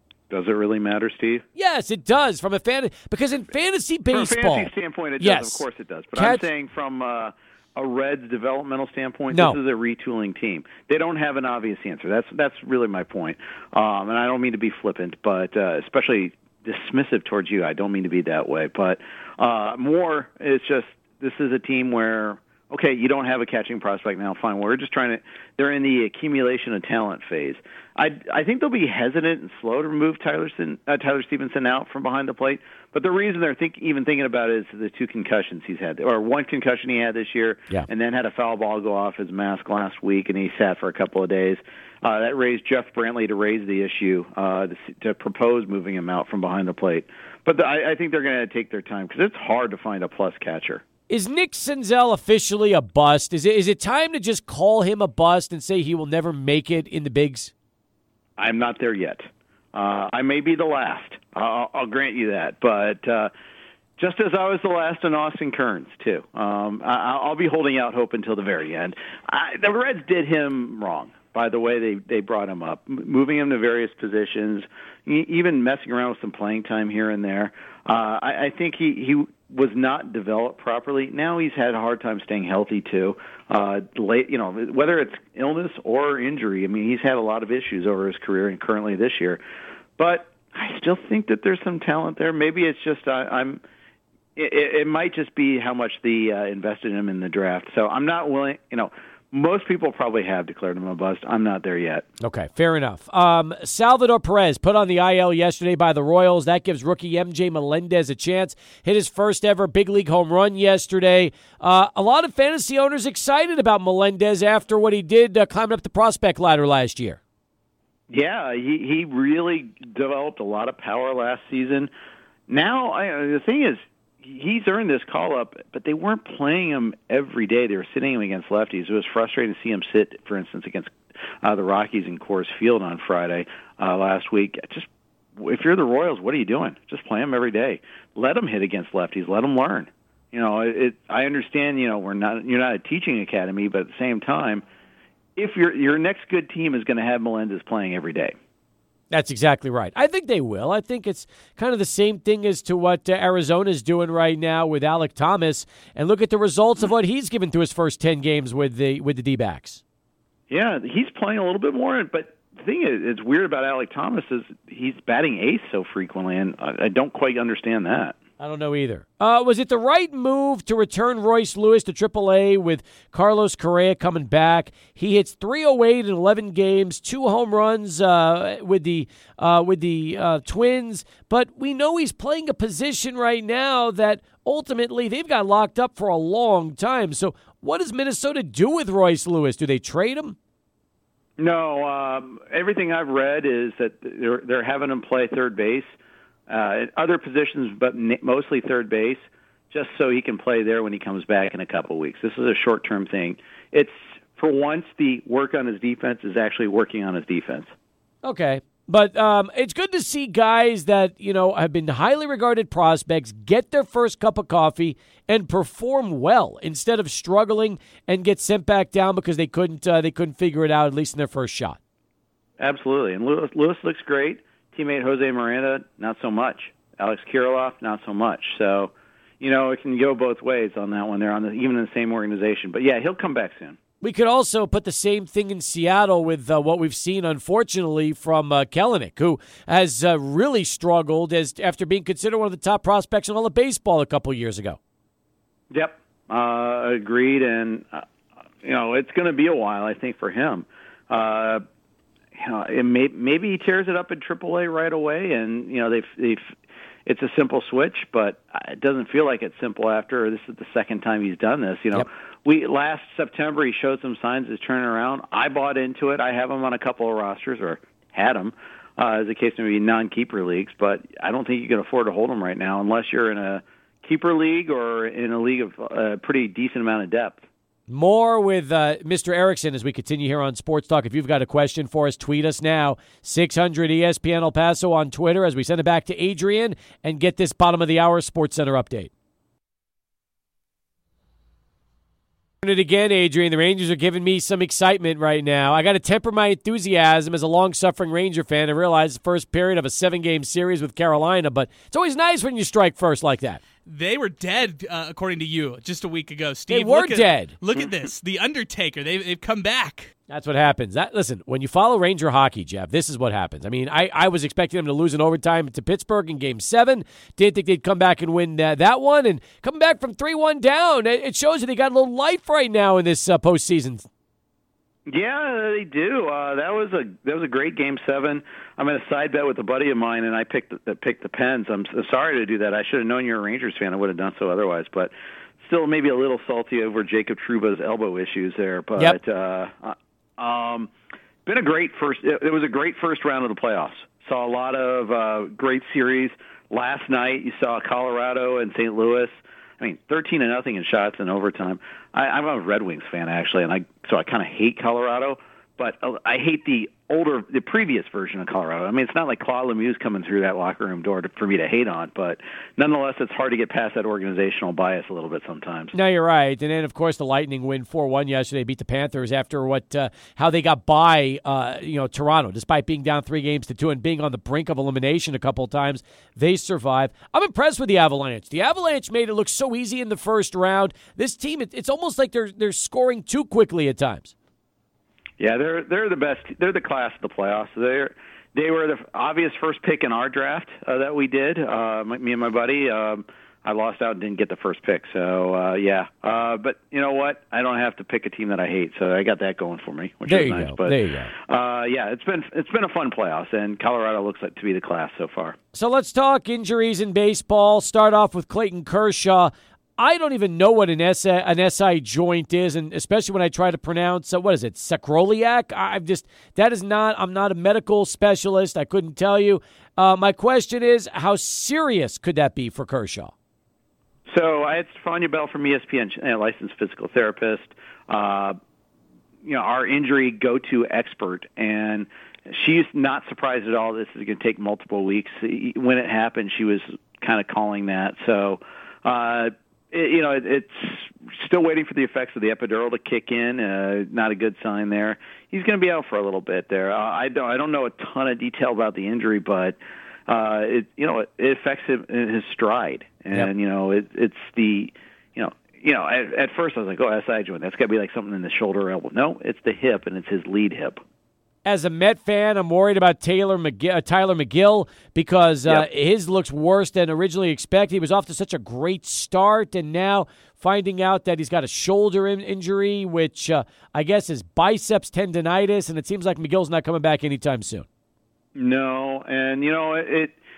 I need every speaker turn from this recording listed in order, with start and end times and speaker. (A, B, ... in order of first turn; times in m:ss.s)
0:00.3-0:01.4 A
0:01.5-0:05.6 B
0:04.1-0:50.8 A
0:06.2-0:06.4 B
0:09.3-0:09.6 B
0:51.1-0:57.5 B
0:58.4-1:03.3 A
1:04.0-1:29.4 A
1:30.0-1:33.6 A
1:34.4-1:42.0 A
1:42.2-1:57.2 B
1:58.1-2:01.9 A
2:02.5-2:14.9 A
2:15.4-2:24.6 A
2:25.4-2:28.3 A
2:29.1-2:39.8 B
2:40.5-2:48.2 A
2:48.4-3:10.4 B
3:11.4-3:15.9 A
3:16.5-3:27.7 A
3:28.2-3:41.8 B
3:42.6-3:53.8 A
3:54.0-4:04.8 B
4:05.7-4:08.0 A
4:08.6-4:11.6 A
4:12.4-4:16.5 A
4:17.0-4:37.4 A
4:37.9-4:49.1 B
4:52.6-5:03.6 B
5:03.8-5:10.1 C
5:06.7-5:07.6 B
5:10.3-5:24.1 B
5:25.1-5:40.9 A
5:41.4-6:05.9 A
6:05.9-6:24.3 B
6:25.4-6:45.6 A
6:40.3-6:41.3 B
6:45.7-7:03.3 B
7:04.3-7:08.6 A
7:09.4-7:29.8 A
7:30.3-7:41.0 A
7:41.6-7:57.8 B
7:58.5-8:00.3 A